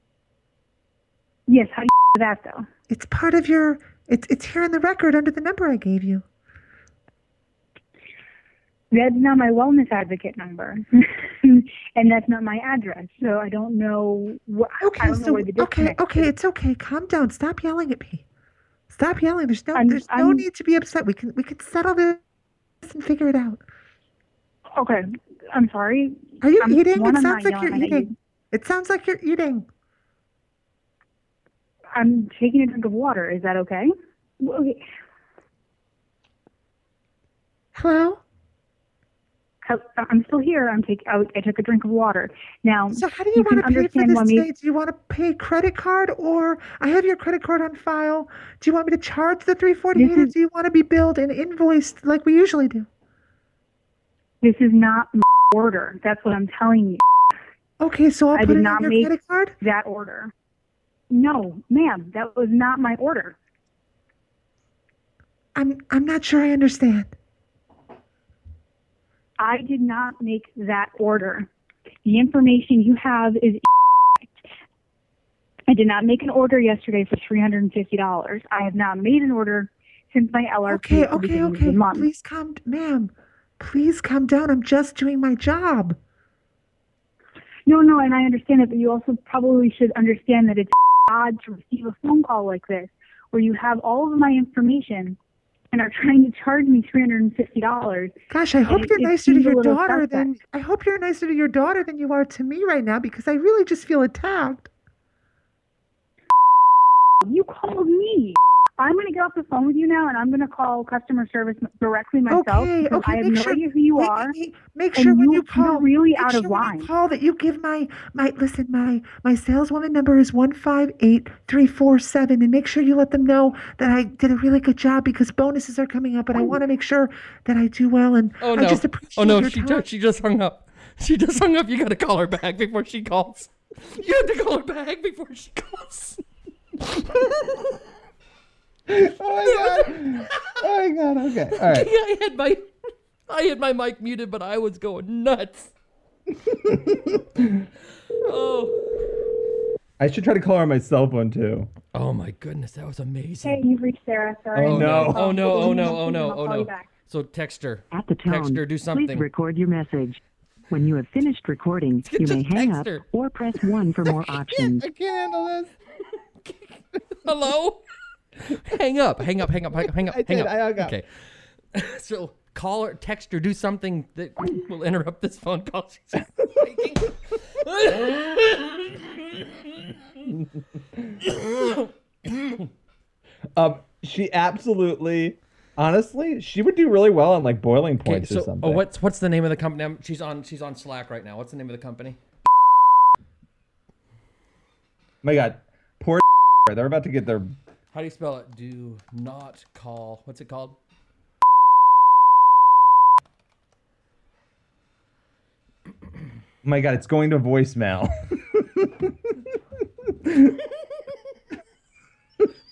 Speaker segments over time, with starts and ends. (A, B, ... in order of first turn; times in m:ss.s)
0:01.5-0:02.6 A
0:02.9-0:06.2 B
0:08.9-0:16.2 A
0:14.8-0:18.2 B
0:18.9-0:22.2 B
0:19.7-0:20.4 A
0:22.8-0:23.6 B
0:24.8-0:28.1 A
0:26.4-0:29.7 B
0:32.0-0:33.9 A
0:34.4-0:34.8 A
0:37.7-0:38.2 B
0:39.6-0:44.5 A
0:42.9-0:52.9 B
0:50.0-0:50.3 A
0:54.4-0:57.0 A
0:57.8-0:59.6 B
0:58.3-1:00.3 A
1:01.1-1:03.4 A
1:05.6-1:07.1 B
1:09.4-1:11.5 A
1:12.0-1:14.4 A
1:15.7-1:22.1 A
1:20.7-1:26.0 B
1:27.7-1:35.2 A
1:35.7-1:38.2 A
1:38.3-1:44.7 B
1:38.7-1:40.3 A
1:47.2-1:54.3 A
1:52.3-2:09.9 B
1:55.0-1:56.9 A
2:08.4-2:16.2 C
2:18.9-2:21.9 D
2:19.4-2:20.6 C
2:21.5-2:22.7 C
2:23.3-2:25.7 C
2:28.2-2:28.8 C
2:30.0-2:31.7 D
2:31.9-2:33.6 C
2:33.4-2:36.9 A
2:34.6-2:35.4 D
2:34.6-2:39.3 C
2:37.9-2:44.8 E
2:42.0-2:44.7 C
2:44.8-2:45.7 D
2:46.4-2:47.8 C
2:48.4-2:51.1 C
2:50.1-2:50.9 D
2:51.7-2:59.9 C
3:01.3-3:01.8 C
3:03.6-3:08.8 D
3:08.0-3:12.2 C
3:15.2-3:17.5 D
3:17.9-3:20.8 C
3:26.6-3:29.1 D